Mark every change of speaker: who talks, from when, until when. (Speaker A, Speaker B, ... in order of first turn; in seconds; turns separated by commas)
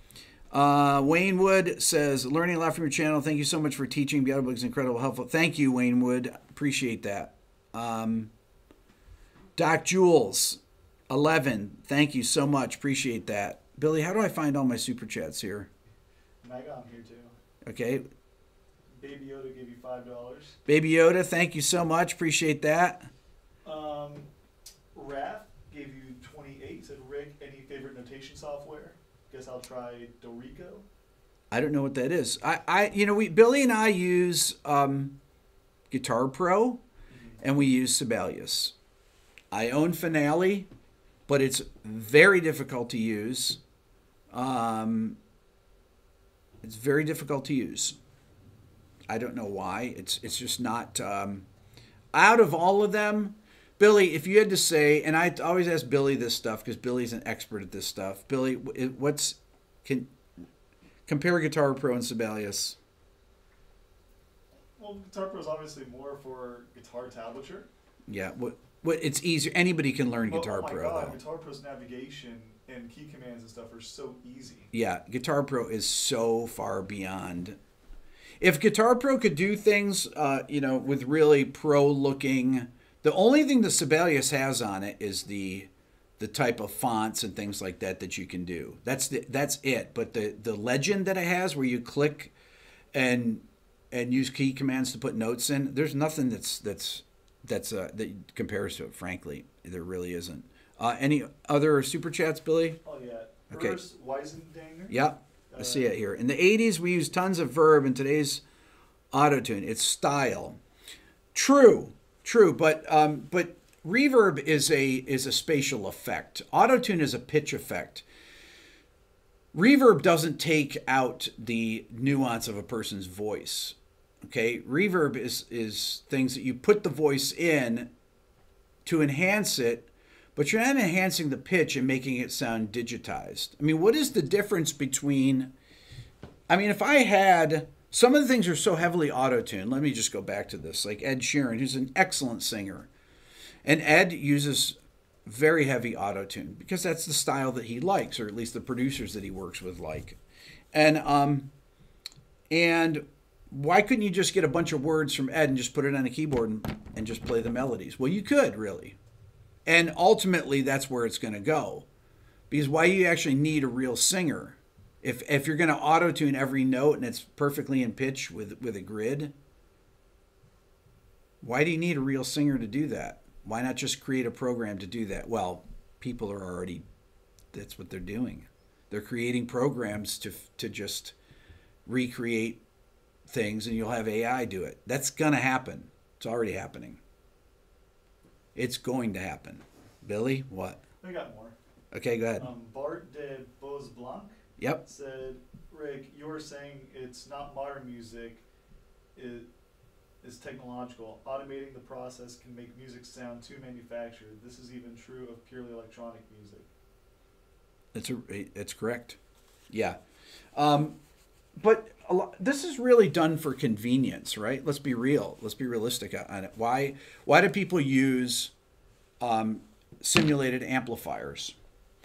Speaker A: 0.5-8.3, Speaker A: 9.6-15.7, Speaker B: 16.4-17.3, Speaker A: 17.6-18.0, Speaker B: 19.0-20.6, Speaker A: 20.7-23.1, Speaker B: 23.6-24.3, Speaker B: 24.9-30.9, Speaker A: 31.5-35.2, Speaker A: 35.9-36.8, Speaker B: 37.1-37.4, Speaker A: 37.4-38.8, Speaker A: 39.5-40.7, Speaker A: 41.3-43.6, Speaker A: 44.3-45.2, Speaker A: 46.6-48.0, Speaker A: 49.1-51.5, Speaker A: 52.1-60.1, Speaker A: 61.1-62.8, Speaker B: 64.8-67.7, Speaker A: 68.1-71.2, Speaker B: 70.3-74.7, Speaker A: 74.7-77.6, Speaker A: 78.4-92.3, Speaker A: 92.9-102.8, Speaker B: 102.8-105.0, Speaker A: 103.5-103.8, Speaker A: 104.9-108.4, Speaker B: 105.5-105.9, Speaker A: 109.1-110.6, Speaker A: 111.3-118.0, Speaker A: 119.5-127.9, Speaker A: 128.8-135.5, Speaker A: 136.5-142.9, Speaker A: 143.7-150.2, Speaker A: 150.7-151.5, Speaker A: 152.5-159.0, Speaker A: 159.7-161.9, Speaker A: 162.5-169.3, Speaker A: 171.4-176.8, Speaker A: 177.5-181.2, Speaker A: 181.9-182.6, Speaker A: 183.3-187.0, Speaker A: 188.6-190.8, Speaker B: 191.0-191.6, Speaker A: 191.9-192.5, Speaker B: 192.4-198.4, Speaker B: 199.2-199.5, Speaker B: 200.2-206.7, Speaker A: 207.9-209.2, Speaker A: 209.7-210.0, Speaker A: 210.6-211.0, Speaker A: 211.6-218.5, Speaker A: 219.2-221.6